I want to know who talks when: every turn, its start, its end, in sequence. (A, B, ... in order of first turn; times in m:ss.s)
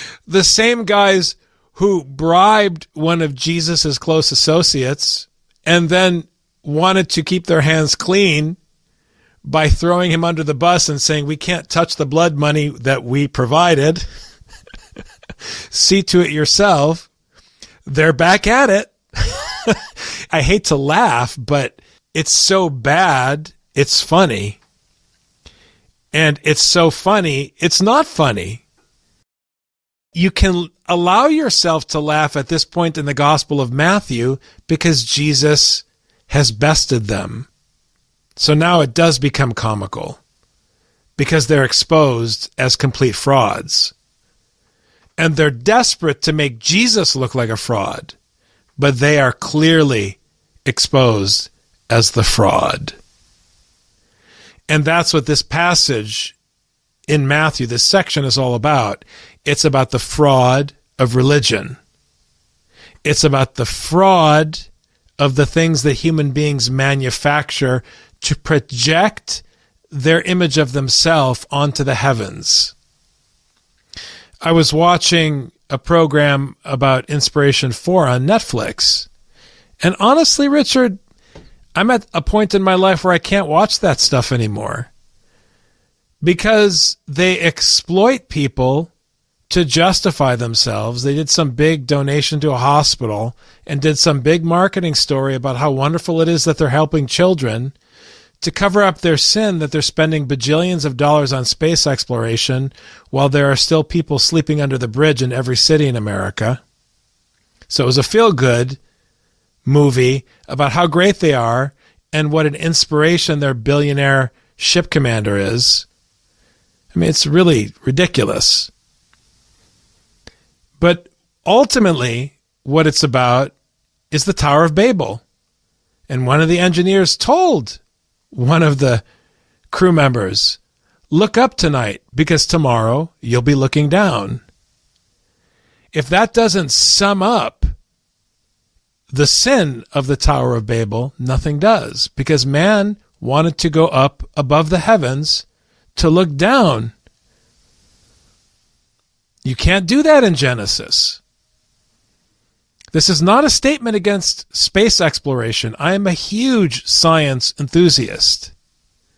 0:00.3-0:08.6 A
0:09.4-0:14.1 A
0:15.7-0:17.1 A
0:17.8-0:19.8 A
0:20.3-0:24.6 A
0:26.1-0:28.6 A
0:30.2-0:37.5 A
0:38.4-0:40.2 A
0:41.2-0:43.9 A
0:45.2-0:48.2 A
0:48.8-0:53.0 A
0:54.7-0:56.4 A
0:57.1-1:01.8 A
1:03.0-1:04.7 A
1:05.2-1:12.7 A
1:14.4-1:19.1 A
1:19.8-1:21.0 A
1:21.8-1:24.9 A
1:26.2-1:28.9 A
1:29.5-1:37.7 A
1:38.4-1:46.6 A
1:47.7-1:48.8 A
1:49.6-1:55.9 A
1:56.9-1:58.7 A
2:00.8-2:03.5 A
2:04.1-2:05.2 A
2:06.1-2:07.8 A
2:08.3-2:09.0 A
2:09.7-2:10.6 A
2:11.1-2:14.4 A
2:15.9-2:17.7 A
2:19.1-2:25.4 A
2:26.0-2:26.9 A
2:29.4-2:31.2 A
2:32.9-2:38.5 A